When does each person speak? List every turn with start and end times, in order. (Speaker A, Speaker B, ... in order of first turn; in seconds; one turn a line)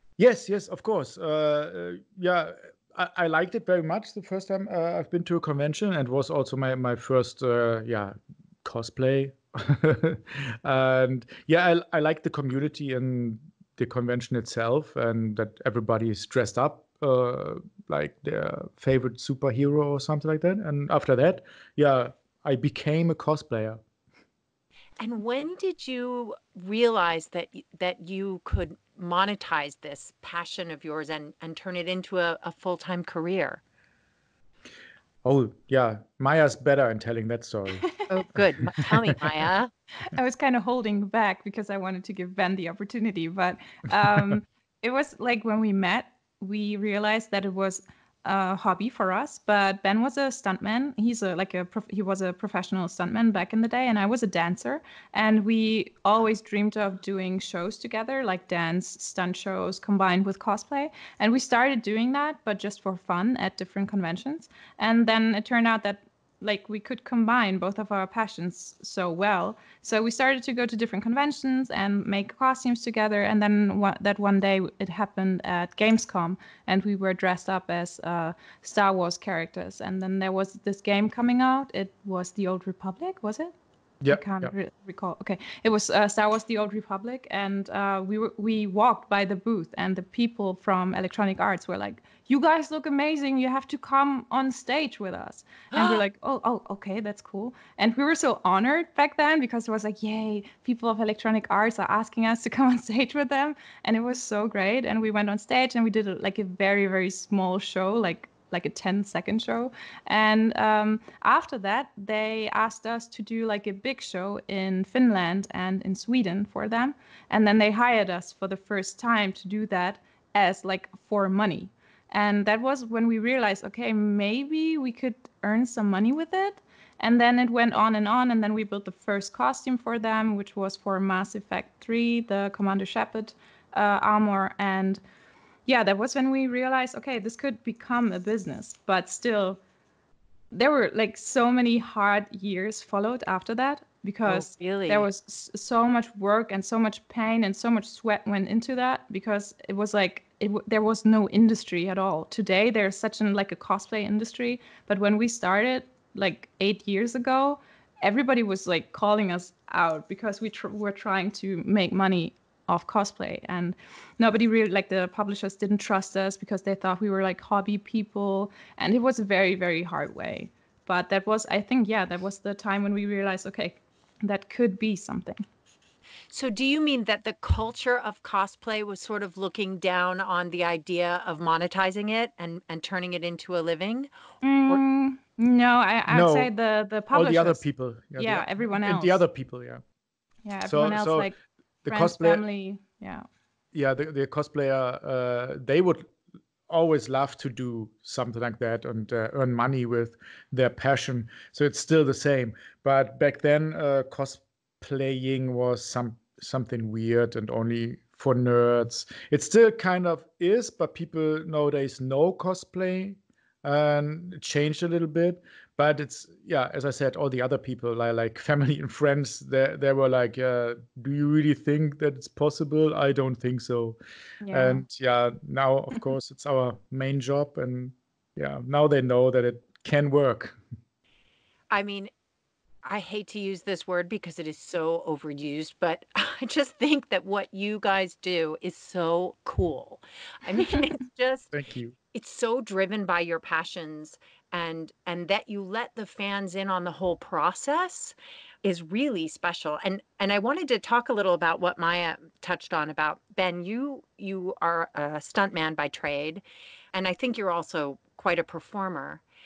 Speaker A: 0.2-23.8
Speaker B: 25.0-33.6
Speaker A: 35.2-37.9
Speaker B: 38.1-39.7
Speaker A: 38.9-39.4
Speaker C: 40.0-83.5
Speaker A: 84.0-84.5
Speaker C: 84.1-135.0
Speaker B: 95.7-96.0
Speaker C: 135.7-139.6
Speaker C: 140.5-175.4
Speaker B: 144.2-145.1
Speaker B: 176.3-184.1
Speaker C: 184.4-187.6
Speaker A: 186.1-186.5
Speaker A: 187.1-189.8
Speaker C: 188.2-189.2
Speaker C: 190.4-191.3
Speaker A: 190.7-191.3
Speaker A: 191.8-192.4
Speaker C: 191.9-193.2
Speaker A: 193.7-196.1
Speaker A: 196.7-224.0
Speaker C: 224.4-224.8
Speaker A: 224.5-230.6
Speaker B: 231.7-232.1
Speaker B: 232.8-241.5
Speaker A: 241.5-241.9
Speaker B: 242.1-256.4
Speaker B: 256.9-259.2